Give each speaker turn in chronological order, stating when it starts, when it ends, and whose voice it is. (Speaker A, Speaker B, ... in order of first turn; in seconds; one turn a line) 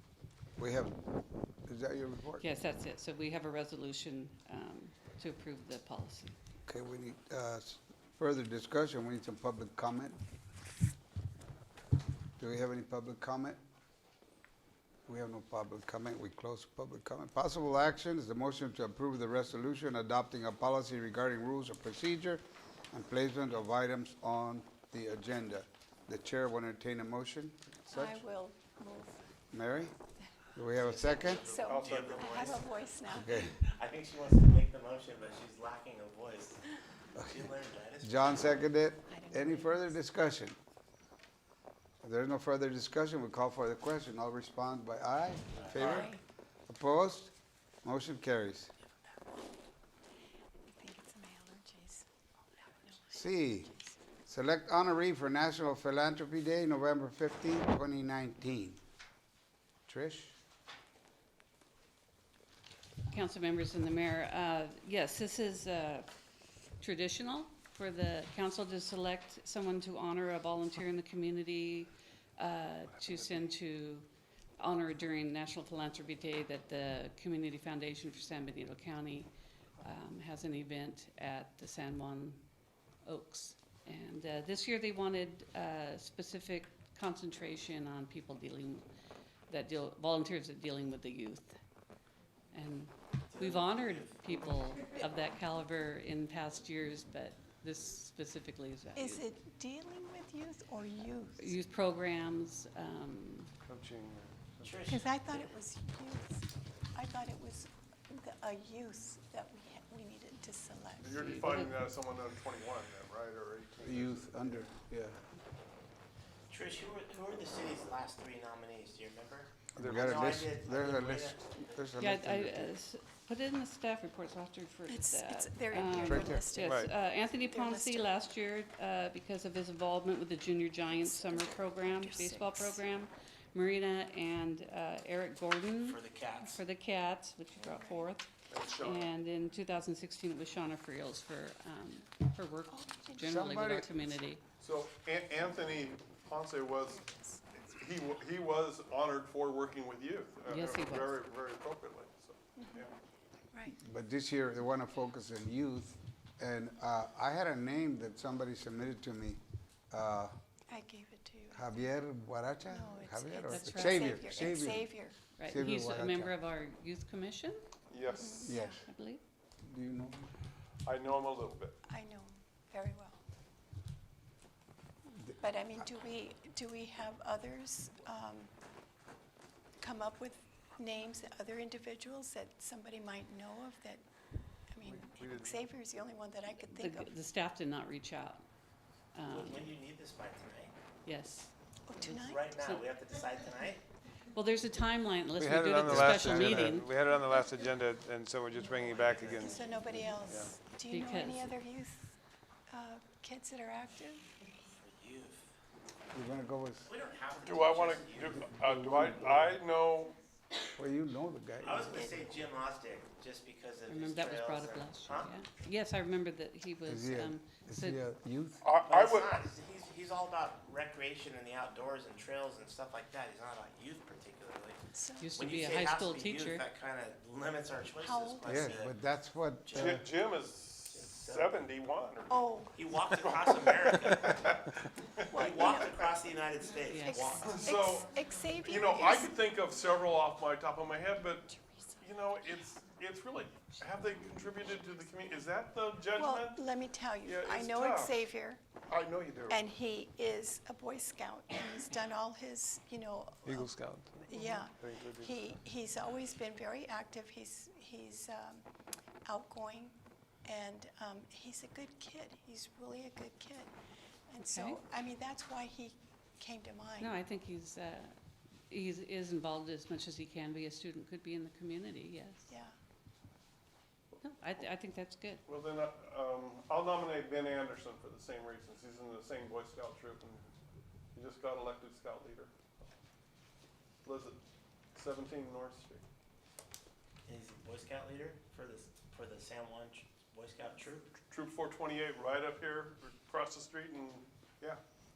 Speaker A: 0.6-2.4
Speaker B: 2.4-6.3
Speaker A: 6.7-10.2
Speaker A: 12.4-13.6
Speaker A: 15.1-28.2
Speaker C: 27.9-29.2
Speaker A: 29.5-29.9
Speaker A: 30.5-31.4
Speaker D: 30.8-38.5
Speaker C: 31.3-33.5
Speaker E: 31.6-32.4
Speaker A: 33.1-33.6
Speaker A: 37.1-40.6
Speaker C: 39.1-39.9
Speaker A: 42.0-46.1
Speaker D: 45.5-46.0
Speaker C: 45.7-46.2
Speaker A: 46.7-48.7
Speaker C: 50.7-52.0
Speaker C: 52.6-53.9
Speaker A: 53.1-53.7
Speaker A: 54.2-58.8
Speaker A: 59.9-60.4
Speaker B: 63.1-66.1
Speaker B: 66.8-79.3
Speaker B: 79.8-82.4
Speaker B: 83.0-88.8
Speaker B: 89.5-91.6
Speaker B: 92.5-99.2
Speaker D: 93.3-95.0
Speaker C: 99.0-101.5
Speaker B: 101.4-103.5
Speaker F: 103.6-104.8
Speaker D: 104.6-105.4
Speaker C: 104.9-111.2
Speaker E: 111.0-114.6
Speaker B: 111.1-111.8
Speaker A: 113.8-115.2
Speaker D: 116.5-121.9
Speaker A: 119.7-122.7
Speaker F: 119.8-120.1
Speaker B: 122.0-144.4
Speaker C: 124.9-128.2
Speaker A: 126.0-126.5
Speaker F: 126.6-126.9
Speaker C: 130.9-132.8
Speaker D: 135.8-136.6
Speaker C: 137.6-138.0
Speaker E: 138.5-139.1
Speaker C: 142.7-143.4
Speaker A: 143.2-144.0
Speaker E: 144.6-152.9
Speaker C: 147.0-147.4
Speaker B: 150.5-151.1
Speaker C: 152.6-152.9
Speaker A: 153.7-160.3
Speaker C: 160.7-161.8
Speaker A: 161.5-166.3
Speaker C: 162.6-165.2
Speaker B: 163.5-164.2
Speaker B: 165.4-167.6
Speaker E: 167.9-168.5
Speaker C: 168.1-168.8
Speaker A: 168.4-168.8
Speaker B: 168.8-169.2
Speaker A: 169.6-170.3
Speaker E: 170.8-171.8
Speaker C: 171.8-173.2
Speaker A: 175.1-175.3
Speaker C: 175.4-178.5
Speaker C: 179.8-184.0
Speaker C: 184.7-187.1
Speaker F: 184.8-185.6
Speaker B: 186.7-188.4
Speaker B: 189.1-189.7
Speaker D: 189.3-190.7
Speaker B: 191.0-192.8
Speaker C: 191.8-192.5
Speaker D: 192.0-193.8
Speaker B: 194.3-196.9
Speaker F: 195.3-200.5
Speaker A: 195.8-196.8
Speaker D: 198.7-199.8
Speaker C: 199.3-202.1
Speaker B: 200.9-201.5
Speaker C: 202.7-204.2
Speaker D: 204.8-205.5
Speaker A: 206.1-206.9
Speaker D: 206.8-208.4
Speaker E: 207.4-210.2
Speaker A: 208.4-209.6
Speaker A: 210.8-212.3
Speaker D: 211.6-215.4
Speaker C: 211.9-212.2
Speaker B: 213.9-218.0
Speaker A: 216.8-218.6
Speaker E: 218.6-219.3
Speaker D: 218.7-229.0
Speaker C: 224.9-225.3
Speaker B: 225.2-226.6
Speaker C: 228.0-228.7
Speaker A: 228.4-230.1
Speaker D: 229.7-230.0
Speaker E: 229.7-232.4
Speaker D: 230.9-231.6
Speaker C: 232.3-232.9
Speaker D: 232.7-234.5
Speaker E: 233.2-235.9
Speaker C: 235.3-236.1
Speaker D: 235.3-237.6
Speaker B: 236.9-237.4
Speaker C: 237.0-239.3
Speaker E: 237.4-246.6
Speaker C: 241.5-241.9
Speaker C: 246.1-248.6
Speaker E: 247.2-248.2
Speaker E: 248.9-249.6
Speaker C: 249.5-258.6
Speaker F: 253.4-255.3
Speaker C: 259.2-263.7
Speaker C: 264.3-267.1
Speaker B: 264.4-264.8
Speaker B: 267.0-268.2
Speaker B: 268.7-272.5
Speaker B: 274.2-275.4
Speaker E: 275.4-280.4
Speaker E: 281.1-282.5
Speaker E: 284.0-284.4
Speaker E: 284.9-286.0
Speaker D: 287.3-291.1
Speaker E: 291.3-294.8